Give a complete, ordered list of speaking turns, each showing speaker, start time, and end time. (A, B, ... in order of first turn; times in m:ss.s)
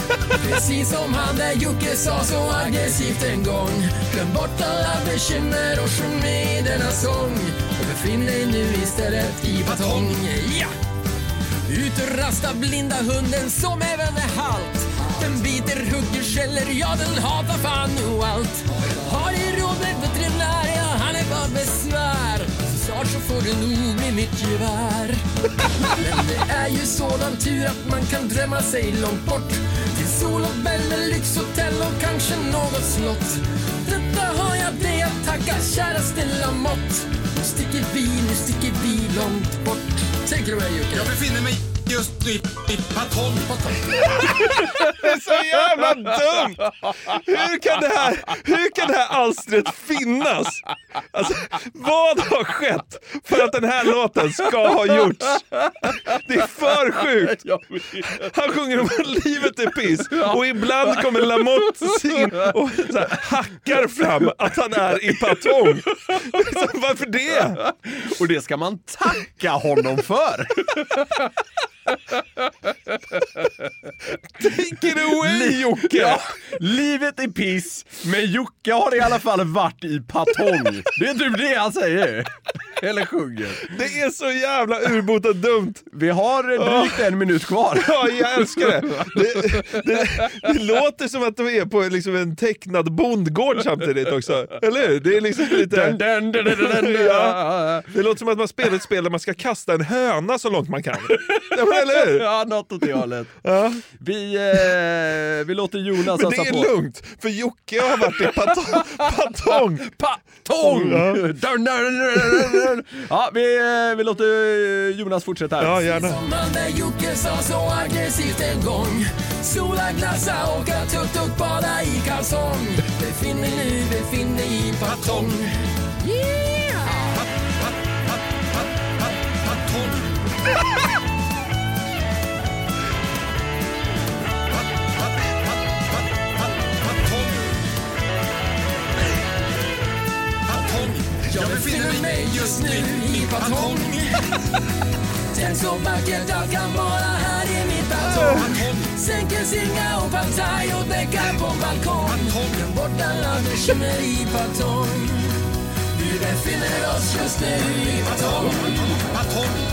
0:00.4-0:10.7 A
0:11.6-0:25.2 A
0:25.8-0:41.1 A
0:41.1-0:43.5 B
0:44.0-0:57.5 C
0:55.6-0:56.2 D
0:57.0-0:58.3 D
0:58.1-1:07.6 C
1:00.1-1:01.4 D
1:07.6-1:11.2 D
1:13.2-1:13.5 D
1:14.4-1:16.2 C
1:15.1-1:23.7 D
1:23.6-1:25.9 C
1:25.9-1:29.8 D
1:26.6-1:27.2 C
1:27.7-1:42.3 C
1:35.5-1:37.9 D
1:41.1-1:43.4 D
1:43.4-1:43.8 C
1:43.9-1:46.7 D
1:46.1-1:49.9 C
1:48.1-1:55.8 D
1:50.6-1:51.2 C
1:55.6-1:56.2 C
1:55.9-2:07.2 A
2:21.2-2:24.3 A
2:25.3-2:35.4 A
2:28.2-2:28.6 C
2:35.9-2:39.0 A